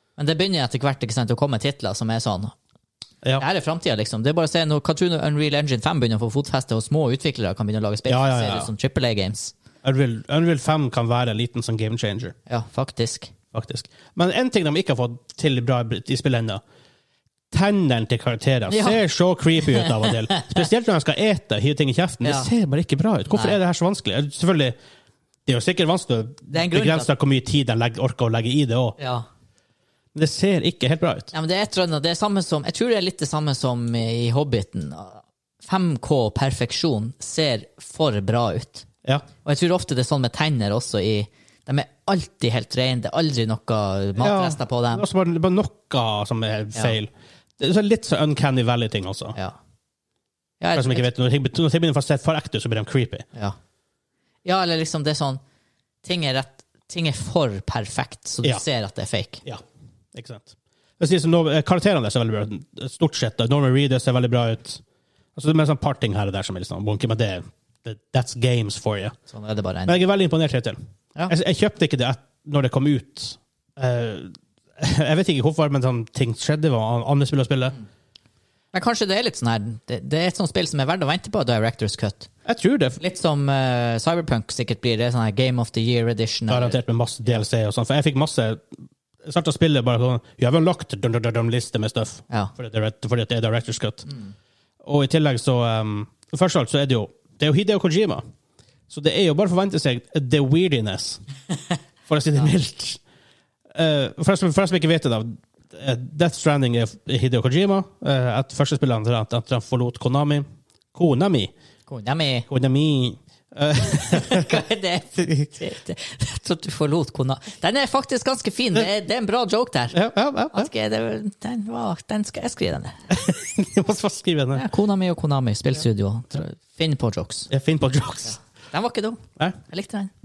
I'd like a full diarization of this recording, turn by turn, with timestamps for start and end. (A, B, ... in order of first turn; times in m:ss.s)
0:00.2-0:02.5 A
0:03.4-0:09.5 A
0:08.1-0:08.7 B
0:09.8-0:12.4 B
0:12.5-0:13.3 A
0:13.5-0:16.6 B
0:17.5-0:24.8 B
0:18.7-0:19.0 A
0:19.6-0:20.5 A
0:22.2-0:22.5 A
0:23.3-0:23.6 A
0:25.5-0:29.0 B
0:26.5-0:27.1 A
0:29.0-0:29.3 A
0:30.2-0:31.3 B
0:31.3-0:38.9 A
0:39.4-0:45.0 A
0:44.2-0:49.4 B
0:50.6-0:51.1 A
0:50.8-0:53.3 B
0:54.4-0:55.4 A
0:56.0-0:59.4 A
1:00.1-1:04.8 B
1:05.4-1:09.2 B
1:09.3-1:10.0 A
1:09.9-1:17.8 B
1:18.7-1:22.3 A
1:22.4-1:23.0 B
1:23.0-1:26.8 A
1:26.5-1:28.7 B
1:29.2-1:34.1 B
1:34.8-1:38.2 B
1:38.9-1:41.2 B
1:42.1-1:43.0 B
1:43.7-1:51.5 B
1:51.9-1:52.5 A
1:52.5-1:54.6 B
1:54.1-2:00.0 A
1:59.9-2:00.7 B
2:00.5-2:03.3 A
2:03.1-2:04.6 B
2:04.5-2:07.5 A
2:07.5-2:08.4 B
2:08.7-2:10.1 A